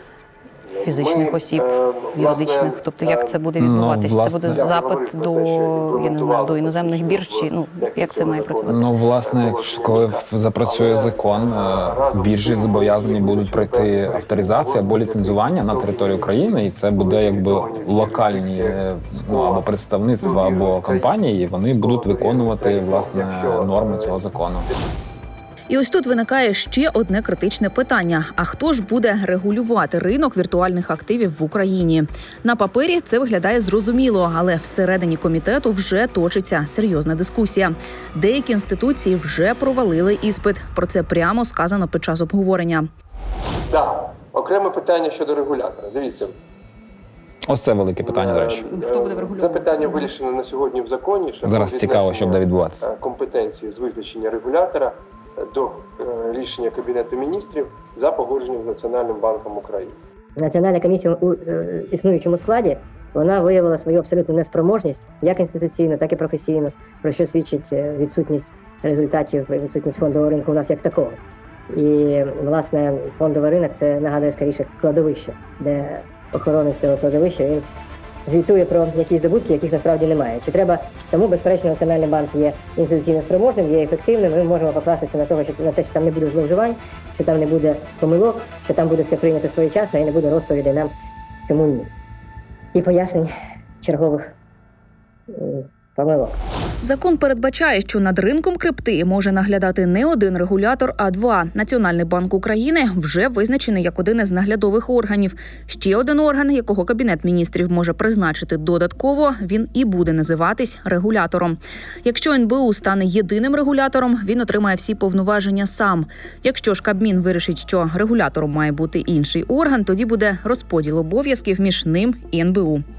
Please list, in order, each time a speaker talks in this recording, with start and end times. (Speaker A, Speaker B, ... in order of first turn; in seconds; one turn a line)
Speaker A: 0.7-3.4
Speaker B: 0.8-8.8
Speaker C: 3.6-4.7
Speaker A: 4.5-19.7
Speaker C: 8.6-24.7
Speaker A: 20.2-21.2
Speaker A: 21.7-24.8
Speaker D: 25.7-42.9
Speaker A: 43.7-46.4
Speaker C: 47.5-48.7
Speaker A: 48.0-60.0
Speaker B: 48.7-50.1
Speaker C: 51.4-52.9
Speaker E: 60.4-71.2
Speaker E: 71.7-77.7
Speaker E: 78.3-90.9
Speaker E: 91.5-91.9
Speaker E: 92.7-93.3
Speaker E: 93.8-94.3
Speaker E: 95.3-96.4
Speaker D: 96.8-122.8